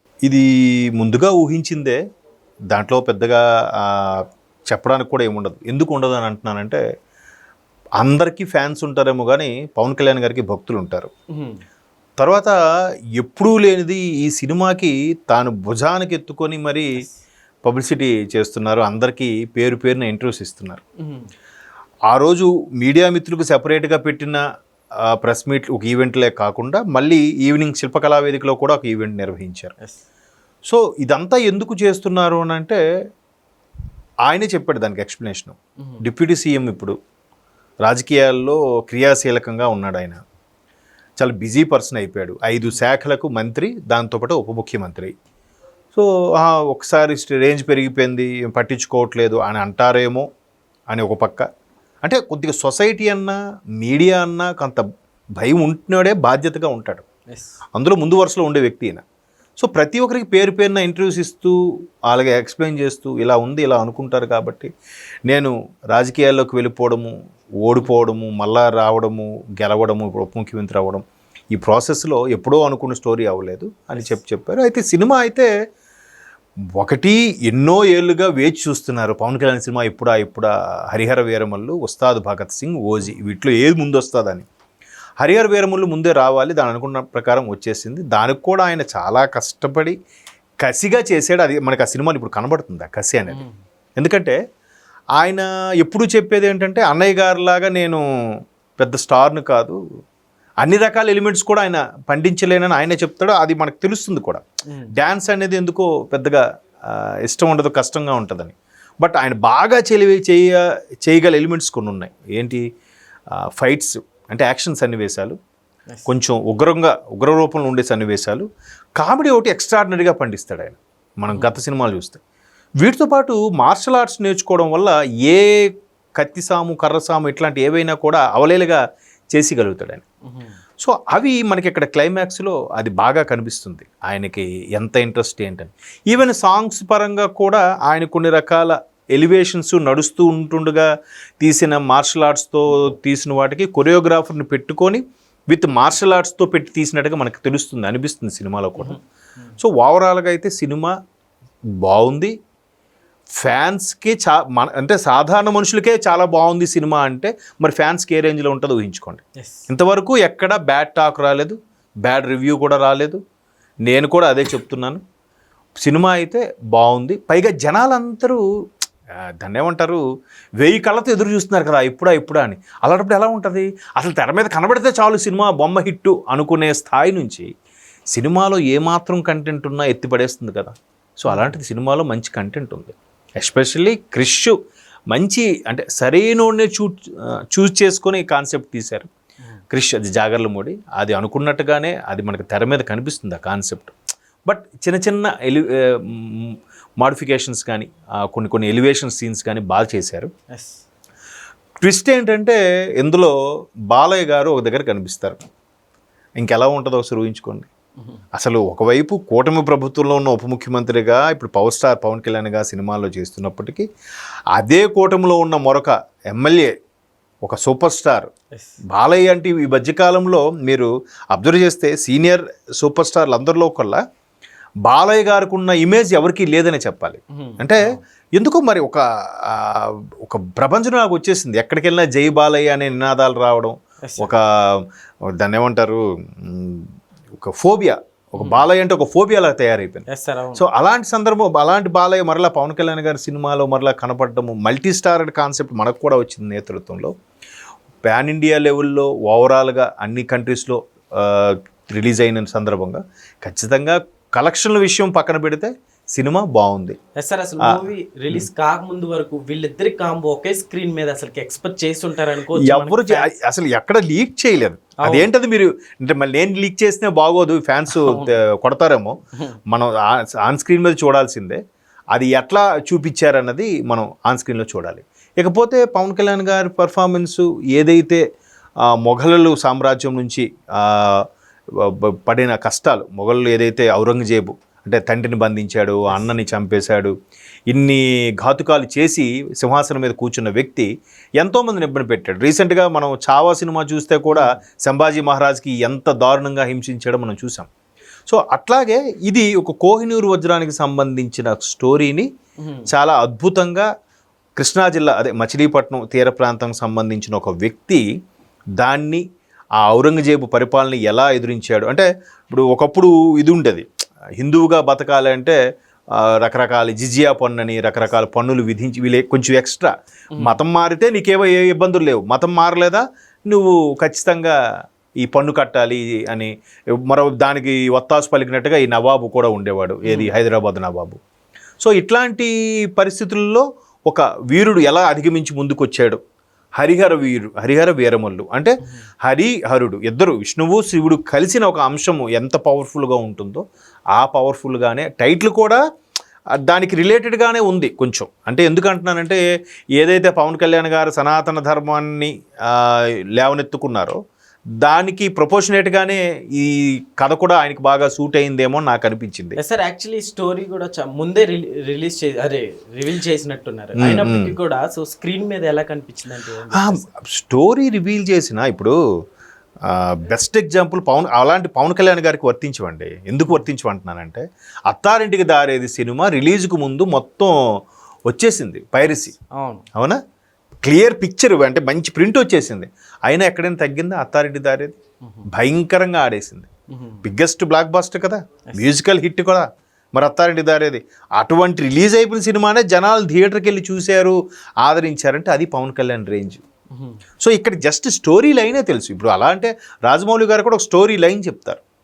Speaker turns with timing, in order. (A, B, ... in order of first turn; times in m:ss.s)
0:00.2-0:02.0 A
0:02.7-0:06.8 A
0:08.0-0:11.1 A
0:11.3-0:11.6 B
0:12.2-0:12.6 A
0:13.2-0:16.9 A
0:17.6-0:20.8 A
0:21.0-0:21.3 B
0:22.1-0:24.4 A
0:25.1-0:29.7 A
0:30.6-0:32.8 A
0:34.2-0:36.9 A
0:37.8-0:40.2 A
0:41.2-0:45.1 A
0:45.9-0:50.2 A
0:50.9-0:51.5 A
0:52.0-0:54.8 A
0:55.4-0:57.0 A
0:57.3-0:57.5 B
0:57.7-0:59.0 A
0:59.6-1:01.5 A
1:02.1-1:04.7 A
1:05.3-1:07.1 A
1:07.6-1:11.0 A
1:11.5-1:15.5 A
1:16.8-1:24.4 A
1:25.2-1:30.0 A
1:30.6-1:33.4 A
1:33.3-1:33.6 B
1:34.0-1:34.4 A
1:35.2-1:38.0 A
1:38.8-1:39.8 A
1:40.6-1:52.6 A
1:44.7-1:44.9 B
1:53.5-1:55.3 A
1:56.1-1:58.4 A
1:59.0-2:02.2 A
2:01.3-2:01.6 B
2:02.8-2:08.8 A
2:09.3-2:10.0 A
2:10.2-2:10.6 B
2:10.8-2:20.9 A
2:21.4-2:29.0 A
2:28.8-2:29.6 B
2:29.6-2:30.9 A
2:31.8-2:32.3 A
2:33.4-2:43.2 A
2:39.4-2:39.7 B
2:43.9-2:45.0 A
2:45.8-2:48.4 A
2:49.4-2:50.0 A
2:50.6-2:57.5 A
2:58.1-3:04.5 A
3:01.3-3:01.6 B
3:05.1-3:09.1 A
3:09.7-3:13.9 A
3:14.4-3:20.3 A
3:20.5-3:20.8 B
3:21.8-3:23.3 A
3:23.9-3:25.4 A
3:26.4-3:27.7 A
3:28.3-3:33.8 A
3:34.6-3:36.7 A
3:37.4-3:38.3 A
3:38.9-3:44.0 A
3:44.9-3:54.8 A
3:47.3-3:48.0 B
3:54.0-3:54.3 B
3:55.4-3:56.9 A
3:57.4-4:00.0 A
3:58.4-3:58.7 B
4:00.1-4:00.6 B
4:00.6-4:07.1 A
4:08.0-4:17.0 A
4:17.2-4:23.3 B
4:17.6-4:18.4 A
4:22.6-4:29.1 A
4:27.9-4:28.4 B
4:30.4-4:31.6 A
4:32.1-4:38.2 A
4:39.0-4:41.2 A
4:41.8-4:47.1 A
4:47.7-4:57.7 A
4:54.3-4:54.6 B
4:58.3-5:02.3 A
5:02.6-5:02.9 B
5:02.9-5:03.9 A
5:04.6-5:08.0 A
5:08.8-5:09.2 A
5:09.8-5:13.8 A
5:14.4-5:15.6 A
5:16.2-5:24.5 A
5:25.2-5:26.5 A
5:27.0-5:31.2 A
5:30.0-5:30.4 B
5:31.8-5:36.2 A
5:36.8-5:43.6 A
5:44.2-5:45.8 A
5:46.6-5:49.4 A
5:50.0-5:54.2 A
5:54.8-5:59.6 A
5:59.6-6:07.0 B
6:04.0-6:04.5 A
6:06.7-6:08.9 A
6:09.9-6:17.5 A
6:18.3-6:19.3 A
6:19.5-6:19.8 B
6:20.8-6:25.0 A
6:25.5-6:26.7 A
6:26.9-6:27.2 B
6:27.2-6:36.6 A
6:36.9-6:37.2 B
6:37.4-6:41.8 A